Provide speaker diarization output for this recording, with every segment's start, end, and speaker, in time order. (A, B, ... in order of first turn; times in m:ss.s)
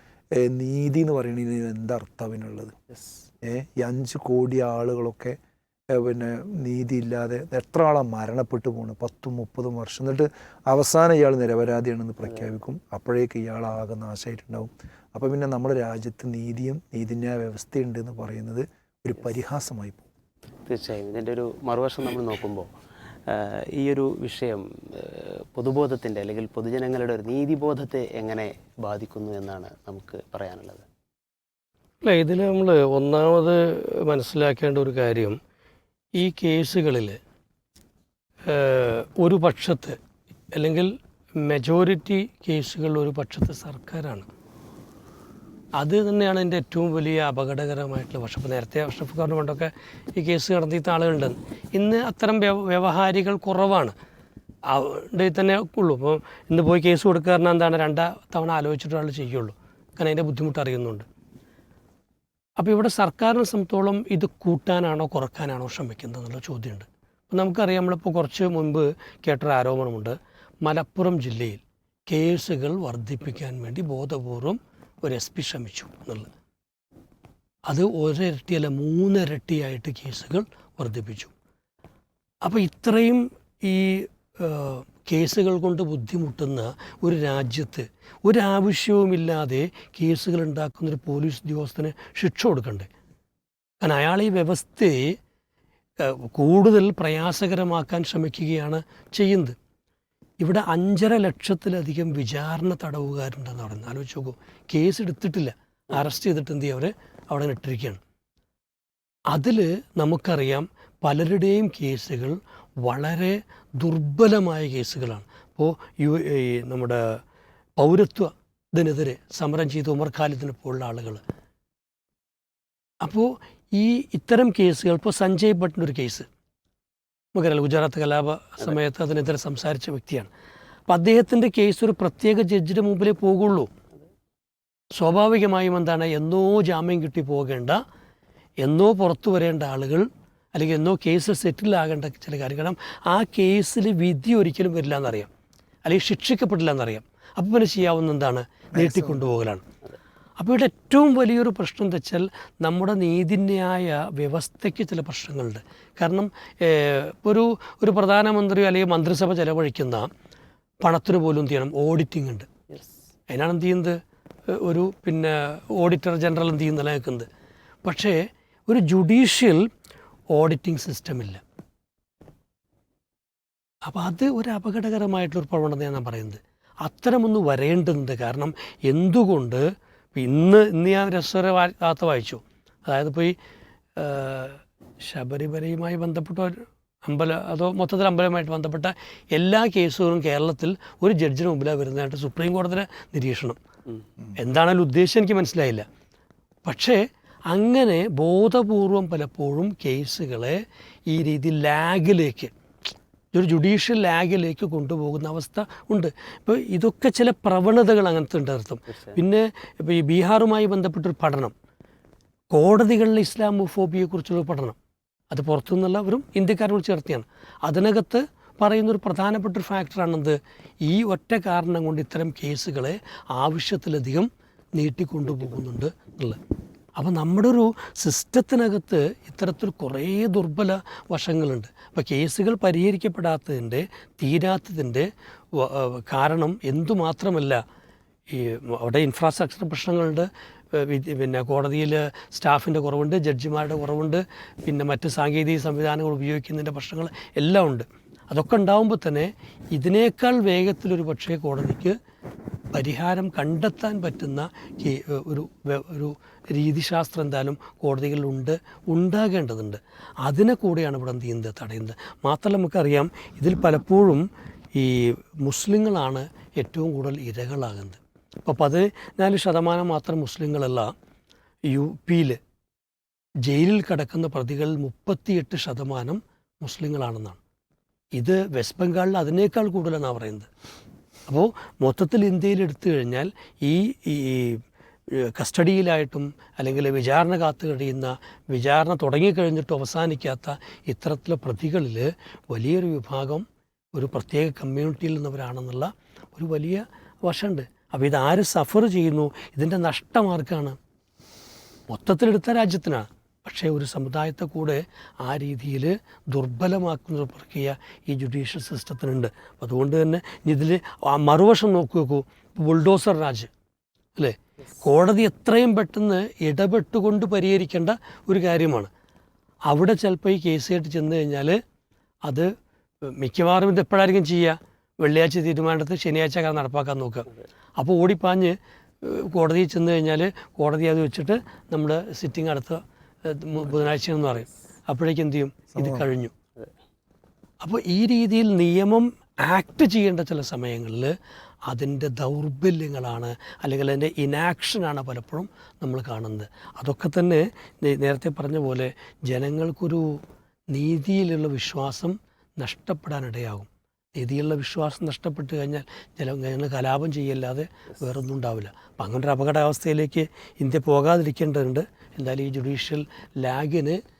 0:00.4-0:02.8 A
0:02.9-0:03.2 B
0:03.4-0:05.3 A
0:05.9-0:20.1 A
0:20.7-0:22.6 B
0:23.3-0:30.8 B
0:32.0-0:35.4 C
0:36.2-0:37.2 C
0:38.5-0:40.0 C
0:40.5-0:44.3 C
0:45.8-0:53.9 C
0:54.7-1:01.0 C
1:02.6-1:16.3 C
1:17.7-1:21.3 C
1:22.4-1:32.9 C
1:33.8-1:35.2 C
1:36.0-1:39.5 C
1:40.4-1:48.0 C
1:49.3-1:57.0 C
1:57.8-2:01.2 C
2:03.0-2:06.3 C
2:07.3-2:10.3 C
2:10.9-2:13.7 C
2:15.0-2:17.8 C
2:18.6-2:25.3 C
2:25.8-2:29.6 C
2:28.7-2:29.3 A
2:30.4-2:40.1 C
2:40.8-2:42.5 C
2:42.7-2:42.9 B
2:43.3-2:44.0 C
2:44.5-2:47.3 C
2:47.8-2:48.2 C
2:48.7-2:49.6 C
2:50.3-2:51.4 C
2:53.9-2:59.6 C
3:00.1-3:03.3 C
3:04.0-3:13.6 C
3:14.4-3:15.8 C
3:16.6-3:17.0 C
3:17.5-3:22.5 C
3:23.3-3:31.5 C
3:28.9-3:29.2 B
3:32.5-3:34.8 C
3:35.3-3:46.4 C
3:45.3-3:45.6 B
3:47.0-3:57.6 C
3:58.3-4:12.0 C
4:12.7-4:24.2 C
4:24.8-4:30.9 C
4:31.7-4:32.4 C
4:33.4-4:37.4 C
4:38.2-4:40.5 C
4:41.3-4:44.6 C
4:45.3-5:00.8 C
5:01.9-5:13.5 C
5:14.2-5:18.9 C
5:19.7-5:21.6 C
5:23.0-5:36.3 C
5:35.7-5:36.1 A
5:37.6-5:41.1 C
5:41.7-5:50.1 C
5:50.7-6:04.0 C